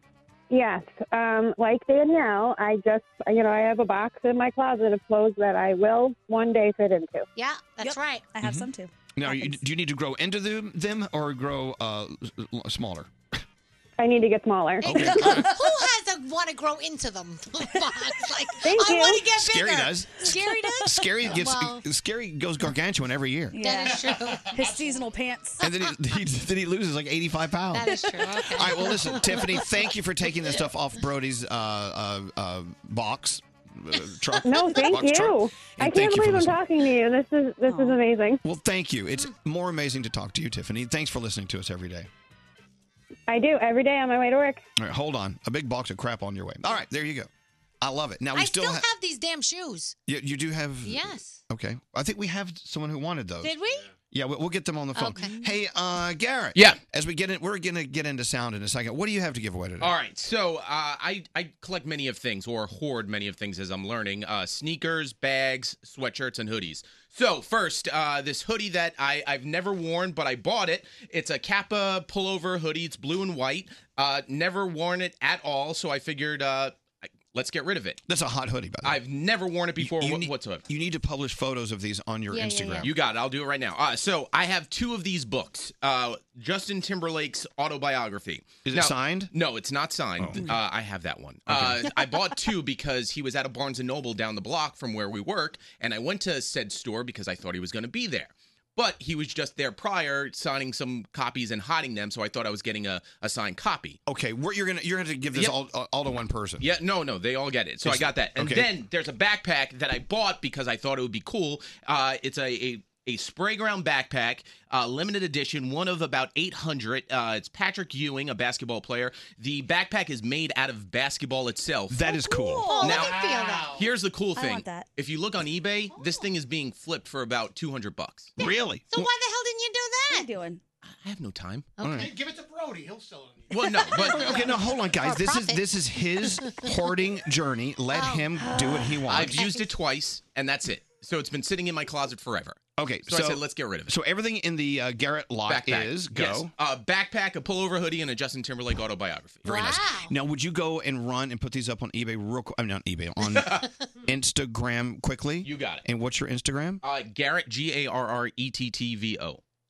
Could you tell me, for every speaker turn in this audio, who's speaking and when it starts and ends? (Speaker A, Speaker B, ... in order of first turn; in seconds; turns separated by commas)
Speaker A: 0.5-7.3, Speaker B: 7.4-8.2, Speaker C: 7.8-9.6, Speaker D: 8.4-13.1, Speaker A: 14.0-15.3, Speaker D: 14.8-15.5, Speaker B: 14.9-21.9, Speaker A: 18.6-19.2, Speaker D: 19.2-23.6, Speaker C: 23.5-25.7, Speaker B: 23.6-24.8, Speaker D: 25.6-36.6, Speaker B: 27.7-29.7, Speaker A: 34.4-38.4, Speaker C: 37.7-38.0, Speaker D: 38.4-42.1, Speaker A: 43.3-44.6, Speaker D: 44.8-47.3, Speaker D: 47.8-48.9, Speaker B: 48.3-50.0, Speaker D: 50.1-53.6, Speaker B: 50.8-51.4, Speaker B: 53.4-53.9, Speaker D: 54.1-60.0, Speaker B: 55.0-55.4, Speaker E: 59.8-78.0, Speaker D: 78.1-79.0, Speaker E: 78.8-80.6, Speaker D: 79.8-83.0, Speaker E: 82.8-104.0, Speaker D: 88.7-89.3, Speaker D: 90.2-90.5, Speaker D: 91.5-91.8, Speaker D: 104.1-106.7, Speaker E: 106.6-122.0, Speaker D: 107.8-108.8, Speaker D: 121.9-122.8, Speaker C: 122.1-123.1, Speaker B: 122.7-123.9, Speaker E: 122.8-123.2, Speaker F: 123.1-123.7, Speaker E: 123.7-128.3, Speaker C: 124.3-124.9, Speaker B: 126.0-126.2, Speaker D: 128.4-129.1, Speaker B: 128.9-130.3, Speaker C: 130.1-130.6, Speaker E: 130.8-131.7, Speaker B: 131.8-132.1, Speaker D: 131.8-132.1, Speaker F: 131.9-134.2, Speaker E: 133.5-134.5, Speaker D: 133.9-139.5, Speaker B: 134.0-135.7, Speaker B: 136.2-136.6, Speaker B: 137.9-139.7, Speaker E: 139.1-143.9, Speaker D: 142.8-146.5, Speaker E: 145.5-149.5, Speaker B: 149.4-150.1, Speaker D: 149.4-156.8, Speaker E: 153.4-153.6, Speaker E: 155.4-155.8, Speaker E: 156.8-159.4